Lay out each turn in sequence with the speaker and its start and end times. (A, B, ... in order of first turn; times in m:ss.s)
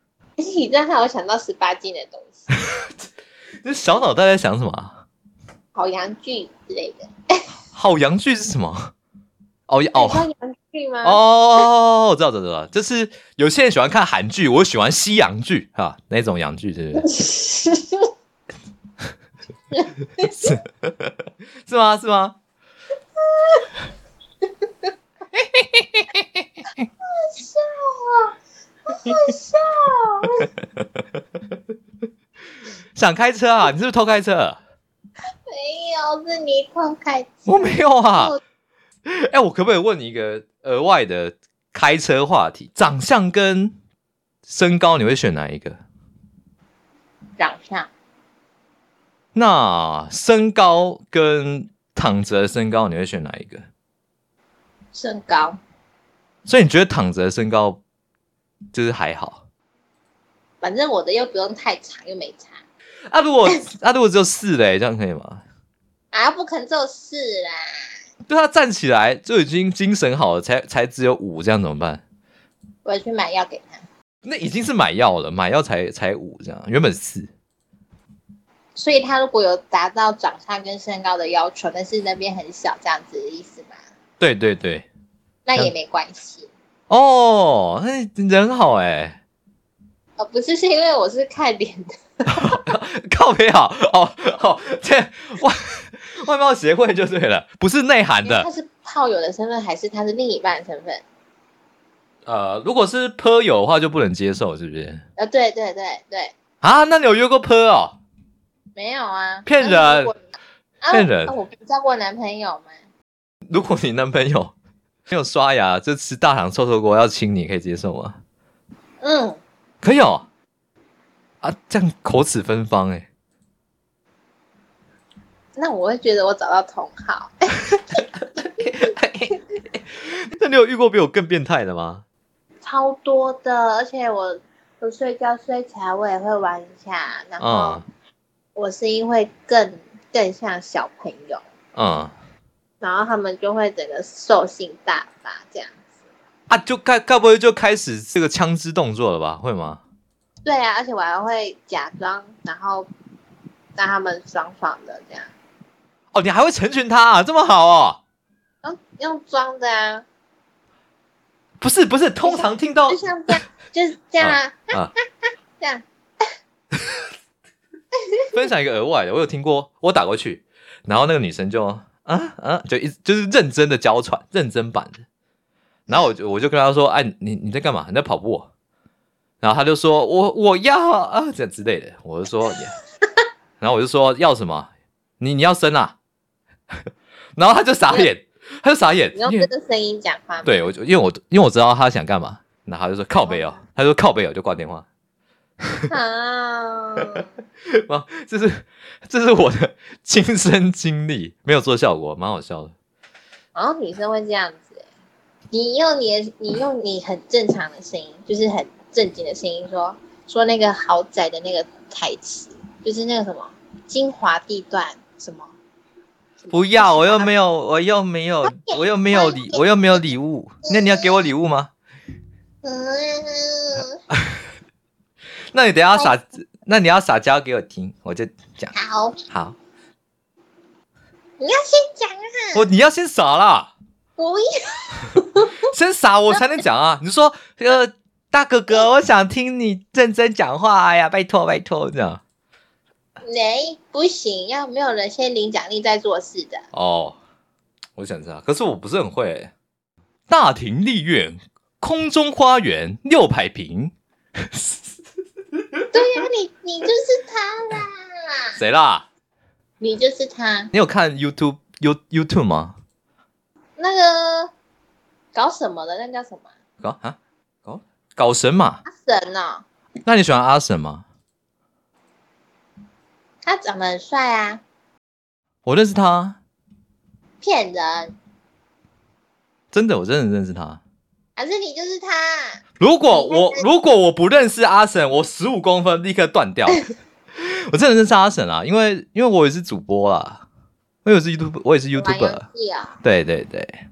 0:00.4-0:02.5 A
0:02.6-0:02.9 B
0:03.6-0:05.0 B
0:05.7-0:07.1 A
0:07.7-0:08.9 B
0:09.7-0:10.3 B
0:10.0-0:11.6 A
0:11.0-0:17.1 B
0:17.0-0:18.1 A
0:19.7-0:20.5 A
0:20.2-0:21.1 B
0:21.7-0:22.4 B
0:23.4-0:23.7 A
0:25.3-0:26.4 B
0:27.1-0:28.3 A
0:28.9-0:30.5 A
0:32.9-0:34.6 B
0:35.5-0:38.4 A
0:37.4-0:38.3 B
0:39.1-0:43.7 B
0:44.4-0:45.8 B
0:47.4-0:47.9 A
0:49.3-0:53.6 B
0:54.9-0:55.6 A
0:56.4-0:57.8 B
0:58.7-0:59.4 B
1:00.6-1:02.6 A
1:03.1-1:05.4 B
1:06.1-1:07.7 A
1:08.3-1:12.0 B
1:12.8-1:13.8 A
1:14.2-1:17.3 B
1:18.7-1:23.8 A
1:24.2-1:24.9 B
1:25.4-1:26.5 A
1:26.9-1:29.2 B
1:30.2-1:32.0 A
1:32.3-1:38.5 B
1:38.2-1:41.0 A
1:42.2-1:45.0 B
1:45.2-1:46.3 A
1:46.6-1:48.0 B
1:48.7-1:50.2 A
1:49.4-1:50.1 B
1:50.8-1:52.8 A
1:50.9-1:51.3 B
1:53.5-1:54.5 B
1:55.1-1:58.2 B
1:59.0-1:59.4 A
1:59.8-2:00.3 B
2:01.4-2:03.1 B
2:05.6-2:08.0 A
2:07.9-2:12.0 B
2:12.6-2:17.8 A
2:17.4-2:17.8 B
2:18.6-2:21.4 A
2:21.8-2:22.1 B
2:22.8-2:25.8 A
2:26.5-2:29.8 B
2:30.4-2:32.9 A
2:33.8-2:35.3 A
2:36.1-2:38.0 B
2:38.6-2:40.0 A
2:41.6-2:43.0 B
2:42.2-2:44.7 A
2:44.2-2:44.9 B
2:48.3-2:55.0 B
2:55.9-2:58.5 B
2:59.4-3:02.8 B
3:03.6-3:06.0 B
3:07.4-3:09.5 B
3:09.2-3:10.7 A
3:10.4-3:14.9 B
3:13.2-3:13.6 A
3:15.9-3:17.3 A
3:17.7-3:22.7 B
3:23.6-3:24.8 A
3:25.5-3:35.5 A
3:36.4-3:37.3 A
3:36.5-3:41.7 B
3:38.5-3:39.6 A
3:40.7-3:41.2 A
3:42.6-3:44.0 A
3:45.5-3:48.7 B
3:48.7-3:49.2 A
3:49.3-3:49.6 B
3:51.4-3:52.6 A
3:52.5-3:53.7 B
3:54.2-3:55.5 A
3:55.7-4:02.2 B
4:03.2-4:06.6 A
4:06.7-4:07.2 B
4:08.0-4:09.5 B
4:10.3-4:14.9 B
4:15.9-4:18.6 A
4:18.6-4:19.1 B
4:19.8-4:20.7 A
4:20.7-4:22.8 B
4:23.8-4:24.5 A
4:25.3-4:26.5 A
4:26.8-4:28.8 B
4:28.8-4:29.6 A
4:30.1-4:31.0 B
4:33.4-4:34.6 A
4:35.6-4:36.4 B
4:37.4-4:38.1 A
4:39.7-4:40.8 B
4:41.4-4:42.6 A
4:42.8-4:46.8 B
4:43.1-4:43.6 A
4:47.4-4:50.4 B
4:51.0-4:52.4 B
4:51.9-4:53.0 A
4:53.0-4:53.8 B